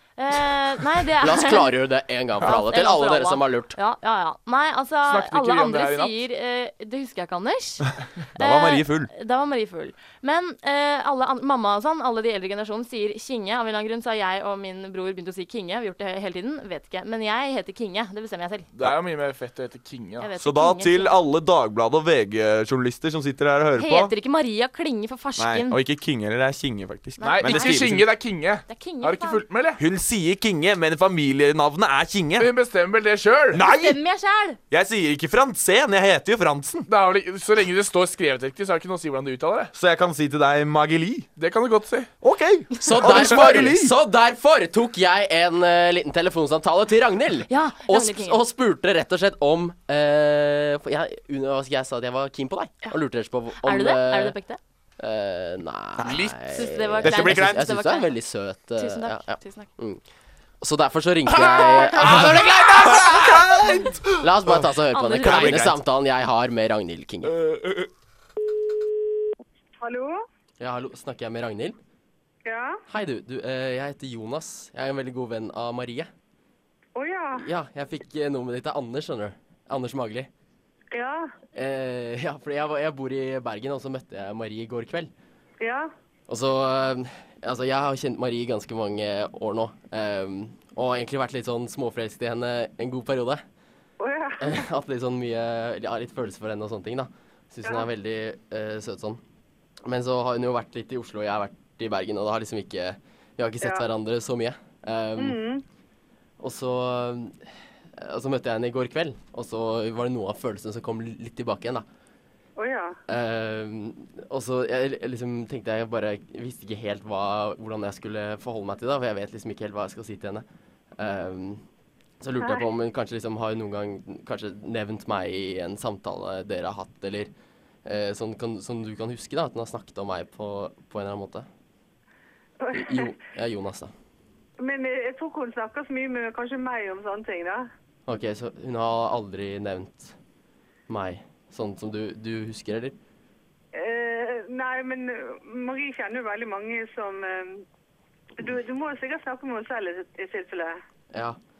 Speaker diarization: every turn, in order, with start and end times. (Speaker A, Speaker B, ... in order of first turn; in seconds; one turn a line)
Speaker A: 0.2-1.8
Speaker B: 1.2-3.8
Speaker A: 2.4-18.7
Speaker C: 5.0-6.2
Speaker D: 8.3-9.1
Speaker C: 18.7-20.3
Speaker A: 20.2-21.1
Speaker D: 20.4-24.1
Speaker A: 23.8-25.8
Speaker D: 25.4-28.1
Speaker A: 27.2-27.9
Speaker C: 27.2-29.8
Speaker A: 28.7-29.4
Speaker D: 29.8-32.5
Speaker C: 32.4-33.6
Speaker D: 33.5-34.0
Speaker A: 33.6-34.6
Speaker D: 34.7-36.9
Speaker C: 36.9-39.7
Speaker D: 39.7-41.3
Speaker C: 41.4-42.1
Speaker D: 42.2-44.0
Speaker B: 42.8-54.3
Speaker A: 47.5-48.4
Speaker A: 53.6-54.6
Speaker B: 55.0-60.0
Speaker D: 56.0-56.3
Speaker C: 56.0-56.3
Speaker A: 56.5-58.1
Speaker D: 57.0-57.8
Speaker A: 58.8-59.7
Speaker B: 60.6-63.5
Speaker C: 61.5-62.1
Speaker D: 62.0-65.8
Speaker B: 64.2-67.3
Speaker A: 64.9-65.7
Speaker D: 67.5-67.8
Speaker E: 69.8-70.2
Speaker B: 70.6-71.8
Speaker E: 72.4-72.8
Speaker B: 72.9-76.1
Speaker E: 76.9-77.5
Speaker B: 77.4-80.3
Speaker E: 80.9-81.3
Speaker B: 81.5-85.1
Speaker E: 85.6-85.9
Speaker B: 86.3-93.4
Speaker E: 94.0-94.6
Speaker B: 94.4-99.2
Speaker B: 99.8-105.4
Speaker E: 103.6-103.8
Speaker E: 105.2-105.6
Speaker B: 106.4-107.4
Speaker B: 108.0-111.8
Speaker E: 112.6-113.0
Speaker B: 113.1-120.4
Speaker B: 121.0-121.6
Speaker B: 122.2-127.3
Speaker E: 122.4-122.7
Speaker B: 127.8-131.5
Speaker E: 132.6-133.1
Speaker B: 132.7-133.9
Speaker E: 134.6-137.7
Speaker B: 138.1-140.1
Speaker B: 140.9-142.9
Speaker E: 143.7-147.7
Speaker E: 148.4-150.8